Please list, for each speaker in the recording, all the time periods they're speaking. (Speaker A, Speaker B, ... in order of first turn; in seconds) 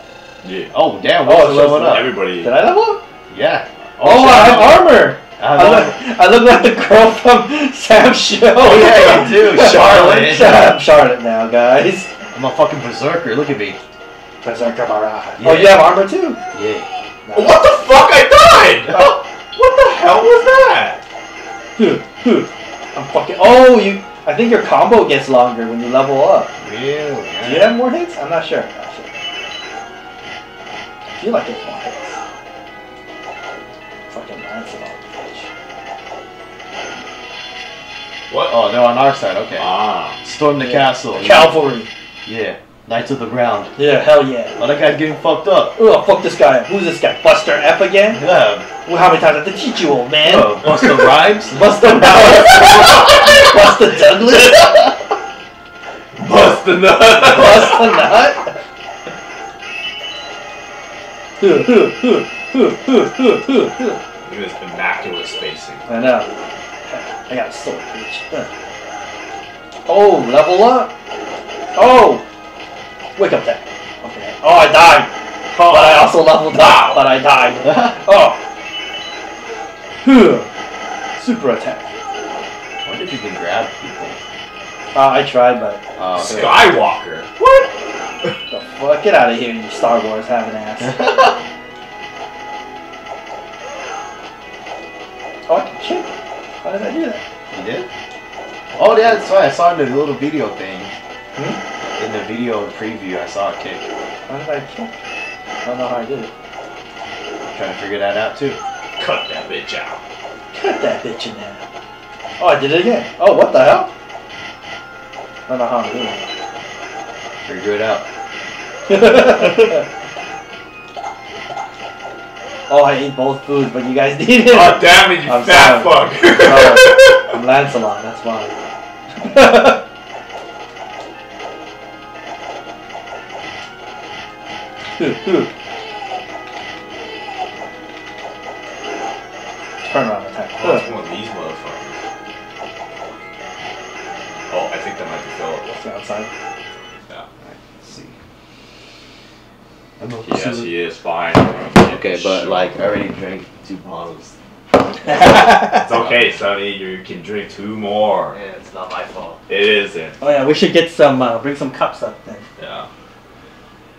Speaker A: 0.4-0.7, 1.7-2.5, 8.9-9.2, 17.3-19.0, 19.5-21.0, 38.3-38.5, 39.6-40.2, 56.1-58.1, 64.2-65.9, 75.5-77.2, 86.1-87.7, 109.0-110.0, 124.5-127.3, 140.6-142.0, 144.5-145.7, 150.2-152.7, 155.1-158.4, 159.5-160.2, 162.6-162.9
Speaker B: 0.7-2.1, 3.3-6.0, 8.6-10.7, 12.3-13.8, 15.4-15.9, 16.5-16.9, 26.6-27.8, 38.5-41.5, 42.2-43.7, 44.6-45.8, 48.1-48.7, 50.2-52.5, 77.7-77.9, 82.8-84.2, 86.0-86.7, 90.8-91.4, 97.5-97.9, 98.8-100.9, 101.8-103.9, 107.5-108.6, 117.4-118.0, 147.4-148.1, 150.0-150.7, 151.8-154.3, 155.0-156.3, 158.3-159.4
Speaker C: 1.2-3.0, 4.0-12.1, 14.4-16.4, 17.2-17.7, 18.9-19.2, 21.8-26.5, 27.4-29.2, 31.1-32.2, 34.1-35.5, 40.6-41.9, 43.8-44.6, 45.8-48.2, 48.8-51.0, 51.5-54.9, 57.2-58.6, 61.4-64.0, 65.9-66.3, 66.8-68.5, 69.8-70.9, 71.7-72.2, 73.2-78.4, 80.0-80.5, 81.2-81.9, 84.9-85.8, 88.5-91.0, 95.5-96.1, 96.6-97.2, 101.3-101.6, 104.3-104.9, 105.6-106.3, 110.5-111.6, 112.4-113.9, 115.5-116.2, 118.9-119.8, 122.7-128.5, 129.2-129.8, 135.0-135.5, 139.8-140.9, 145.6-146.3, 155.0-155.9, 160.2-162.4